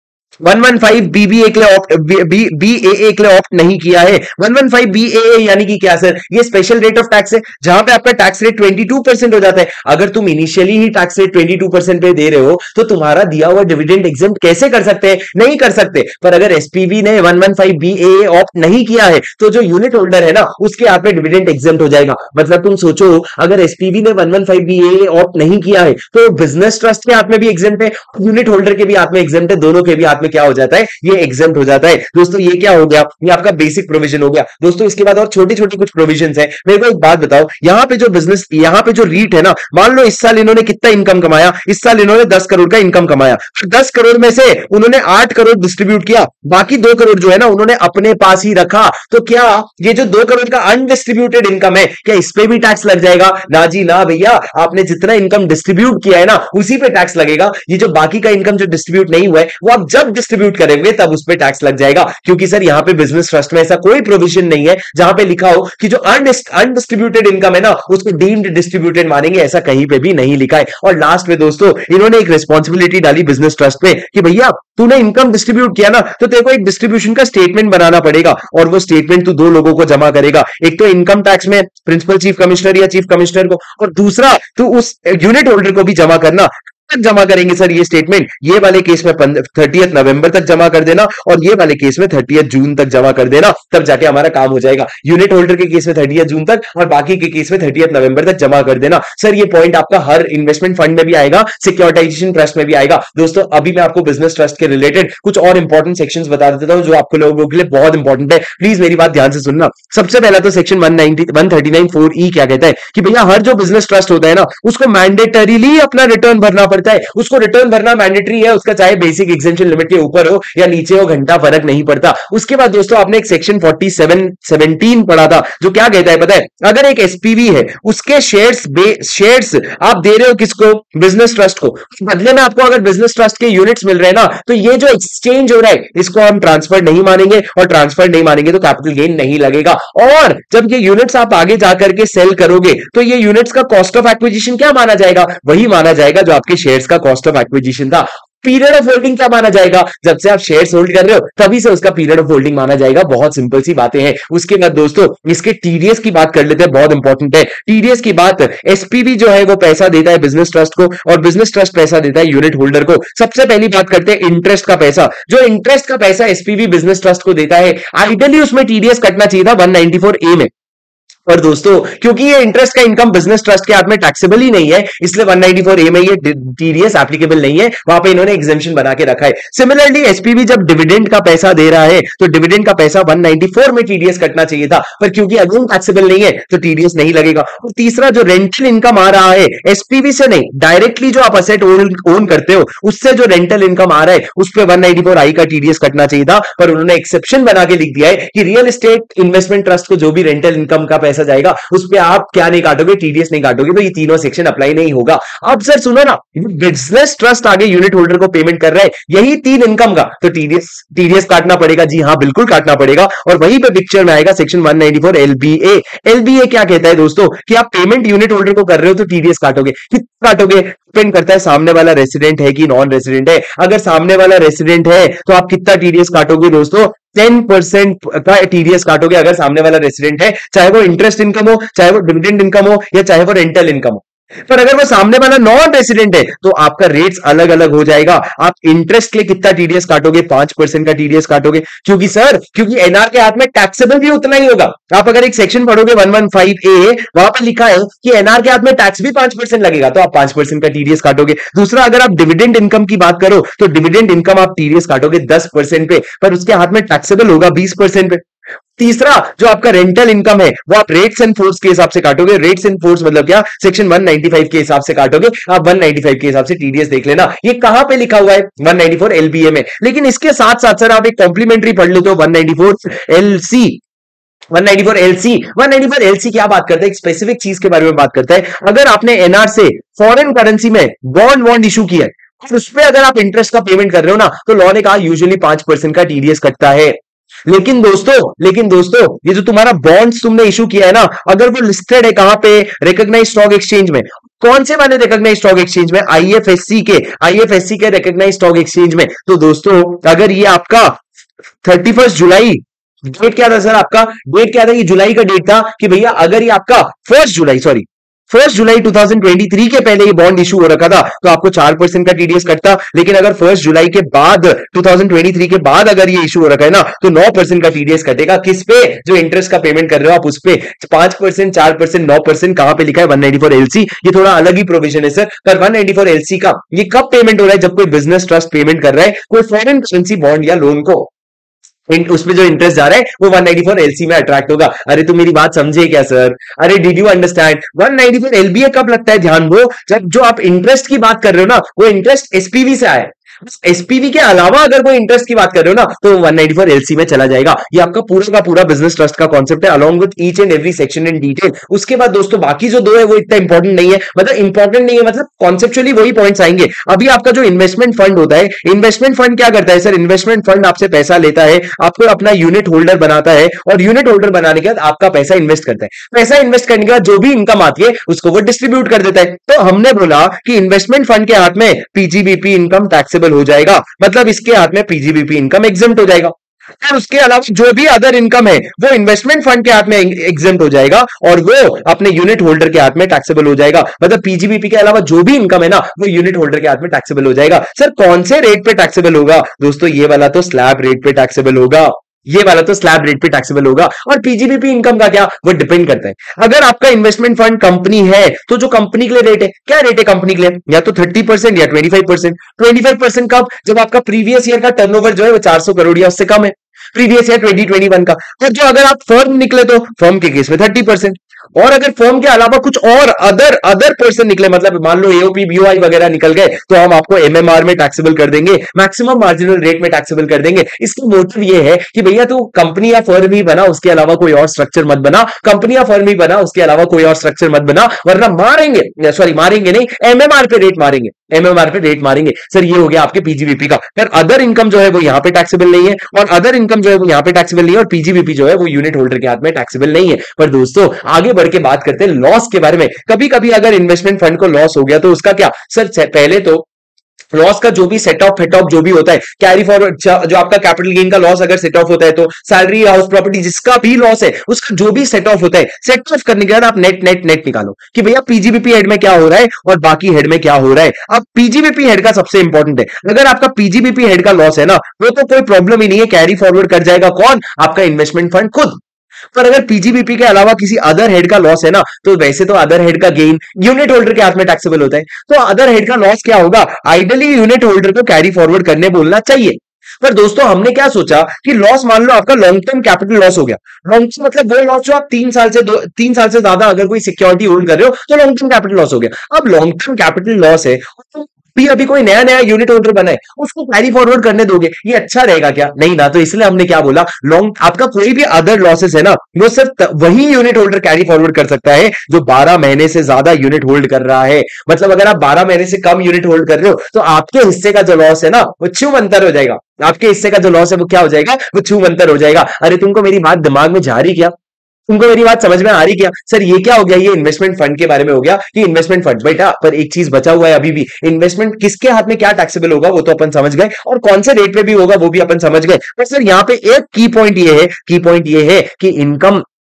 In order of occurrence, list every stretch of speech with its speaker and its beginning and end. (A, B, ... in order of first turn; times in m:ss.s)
0:00.4-2:50.5 A
2:51.3-4:18.2 A
4:18.8-4:33.8 A
4:34.5-4:47.0 A
4:47.5-5:01.0 A
5:01.6-5:31.1 A
5:31.9-7:26.7 A
7:27.3-7:48.8 A
7:49.3-8:34.3 A
8:34.9-8:49.4 A